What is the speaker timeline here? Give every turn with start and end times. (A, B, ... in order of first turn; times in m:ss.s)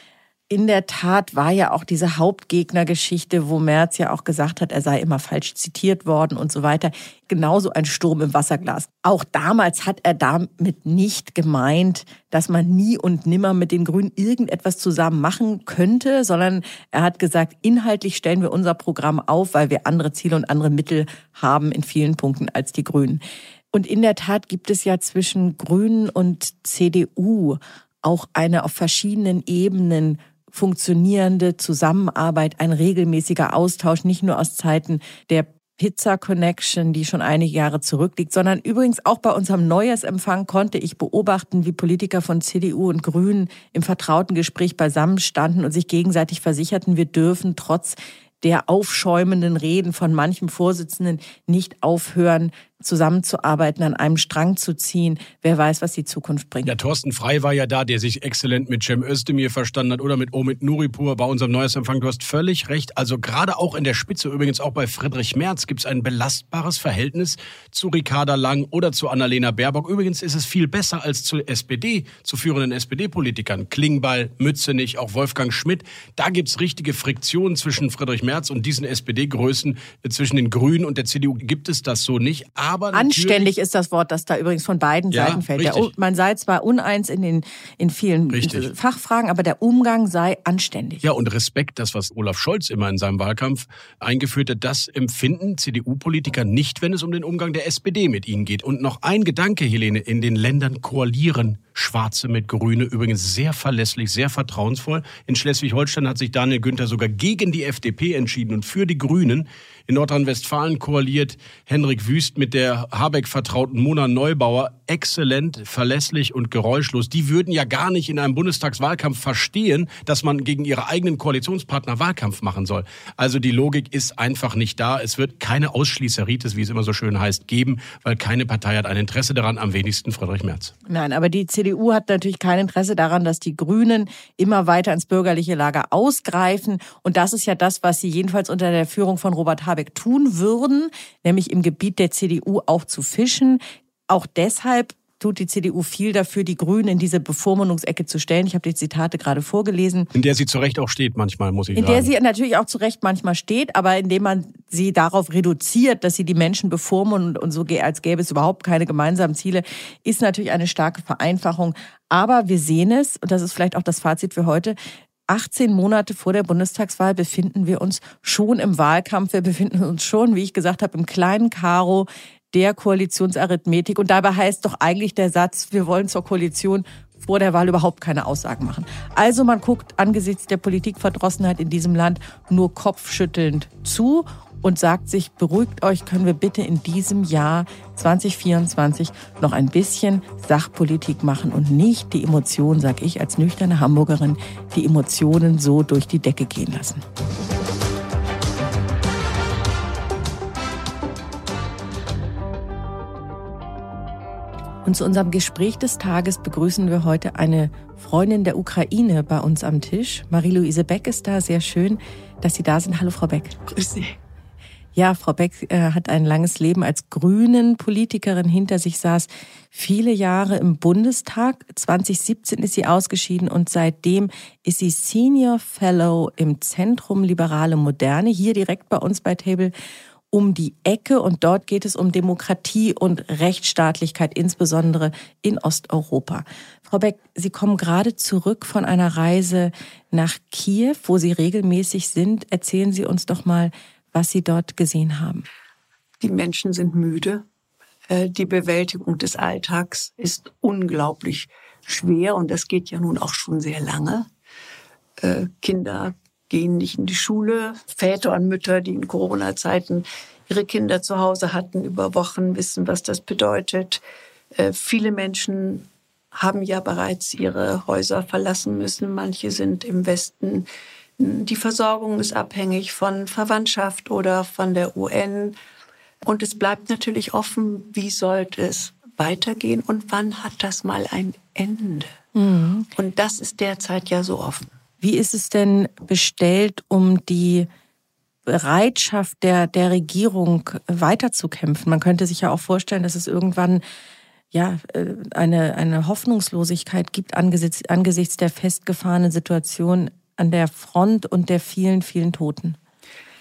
0:00.5-0:23.2 A
0:23.7-0:56.7 A
0:56.7-1:23.5 B
1:22.9-1:31.0 A
1:25.1-1:25.9 B
1:28.3-1:28.7 B
1:31.0-2:10.7 B
2:10.9-2:30.1 A
2:30.2-2:32.1 B
2:31.7-2:44.8 A
2:45.3-3:17.0 A
3:24.8-3:33.6 A
3:33.7-3:34.2 C
3:35.0-3:49.7 A
3:50.3-4:05.4 A
4:06.2-4:07.4 C
4:08.1-4:14.3 C
4:15.2-4:24.0 C
4:24.6-4:30.7 C
4:31.2-4:35.6 C
4:36.2-4:42.1 C
4:42.4-4:42.9 A
4:43.0-4:44.7 C
4:45.0-4:47.7 A
4:48.5-4:53.8 A
4:54.5-5:02.8 A